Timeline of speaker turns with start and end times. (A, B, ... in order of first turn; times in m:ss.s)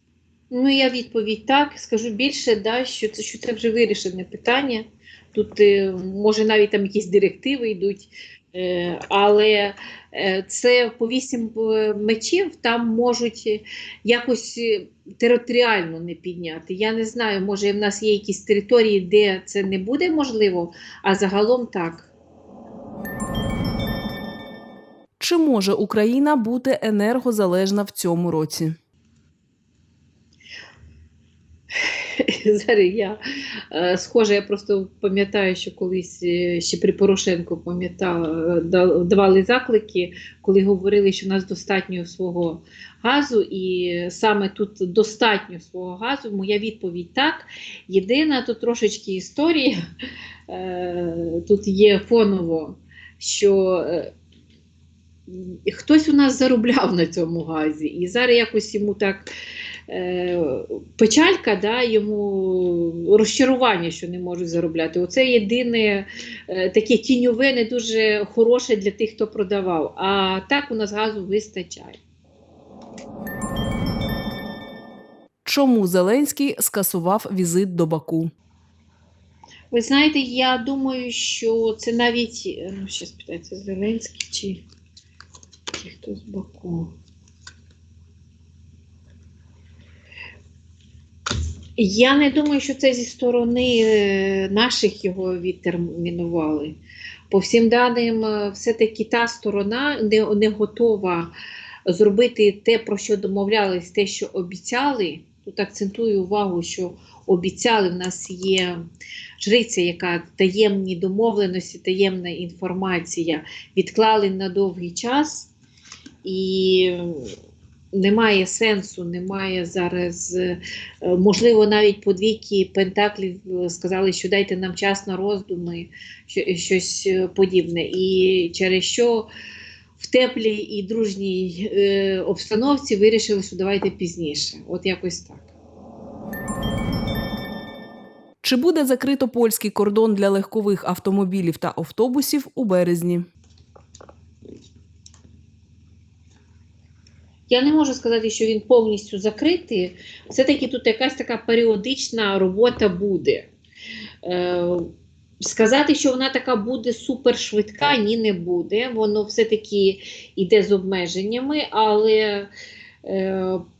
0:00.5-0:22.1 A
0:25.2-0:28.7 B
0:31.9-0:33.2 A
0:33.7-0:49.8 A
0:50.5-0:54.1 A
0:55.3-0:59.3 A
0:59.9-1:12.0 A
1:15.4-1:18.3 B
1:19.7-1:24.6 A
1:25.7-1:26.9 A
1:31.8-1:36.8 A
1:37.3-1:41.3 A
1:41.9-1:48.8 A
1:49.4-1:55.5 A
1:56.2-1:57.3 A
1:57.9-2:09.3 A
2:10.0-2:15.5 A
2:18.4-2:23.2 B
2:27.5-2:33.5 A
2:34.2-2:34.9 A
2:35.4-2:42.5 A
2:43.0-2:43.6 A